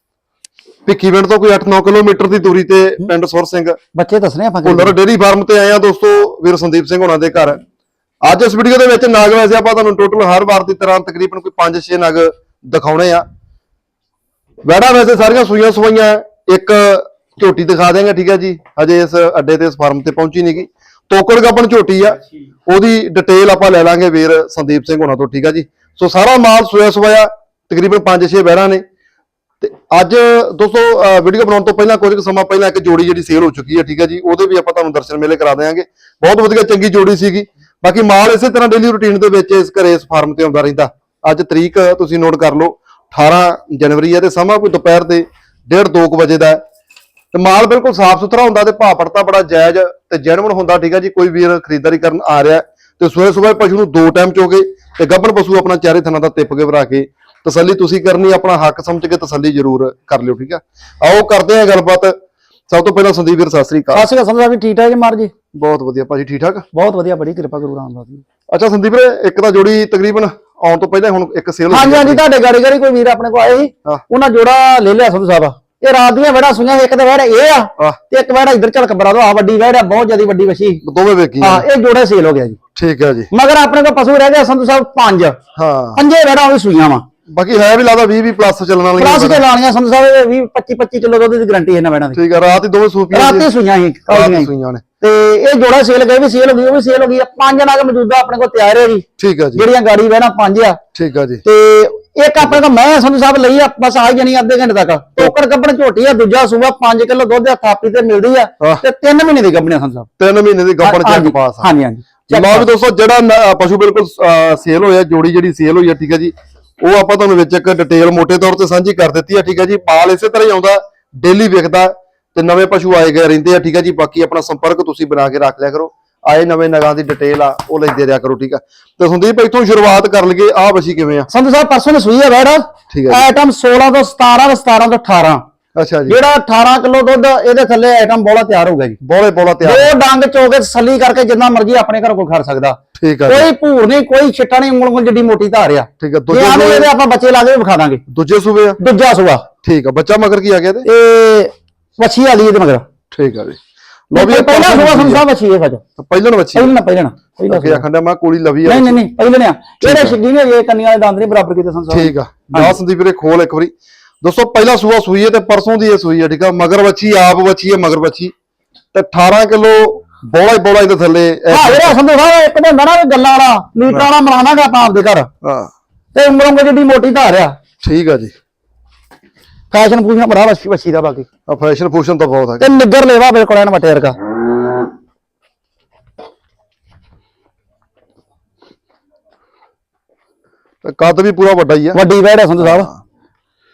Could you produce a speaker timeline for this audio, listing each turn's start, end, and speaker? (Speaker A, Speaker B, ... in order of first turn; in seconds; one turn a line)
Speaker A: 0.9-3.8
Speaker B: 3.9-5.0
Speaker A: 4.6-7.6
Speaker A: 8.2-13.2
Speaker A: 14.6-28.8
Speaker A: 29.6-46.6
Speaker A: 47.3-62.1
Speaker A: 62.7-64.1
Speaker B: 63.9-65.3
Speaker A: 65.5-66.7
Speaker B: 66.7-68.2
Speaker A: 68.5-72.2
Speaker B: 71.7-80.8
Speaker A: 80.8-81.7
Speaker B: 81.4-82.6
Speaker A: 82.8-83.3
Speaker B: 83.3-85.4
Speaker A: 85.5-86.0
Speaker B: 86.0-87.1
Speaker A: 87.3-89.4
Speaker B: 89.0-92.2
Speaker A: 92.1-93.5
Speaker B: 93.1-94.5
Speaker A: 94.1-94.8
Speaker B: 95.0-100.8
Speaker A: 99.2-99.7
Speaker A: 100.9-101.4
Speaker B: 101.4-110.1
Speaker A: 110.2-111.7
Speaker B: 110.8-112.7
Speaker A: 112.3-131.3
Speaker B: 131.3-135.4
Speaker A: 132.9-133.3
Speaker A: 135.8-136.2
Speaker B: 136.1-139.0
Speaker A: 139.0-139.9
Speaker B: 139.6-148.0
Speaker A: 143.0-143.5
Speaker A: 146.0-146.9
Speaker A: 148.1-148.8
Speaker B: 148.8-149.5
Speaker A: 149.6-150.9
Speaker B: 150.8-152.9
Speaker A: 153.1-155.2
Speaker B: 154.1-155.8
Speaker A: 156.0-156.7
Speaker B: 156.6-157.8
Speaker A: 157.5-159.0
Speaker B: 158.7-162.8
Speaker A: 159.8-160.2
Speaker A: 161.9-168.3
Speaker A: 168.9-172.0
Speaker B: 171.5-175.3
Speaker A: 175.4-175.7
Speaker B: 176.1-177.6
Speaker A: 177.8-178.3
Speaker B: 179.7-181.3
Speaker A: 181.5-182.7
Speaker B: 182.6-184.2
Speaker A: 190.8-192.0
Speaker B: 191.9-192.9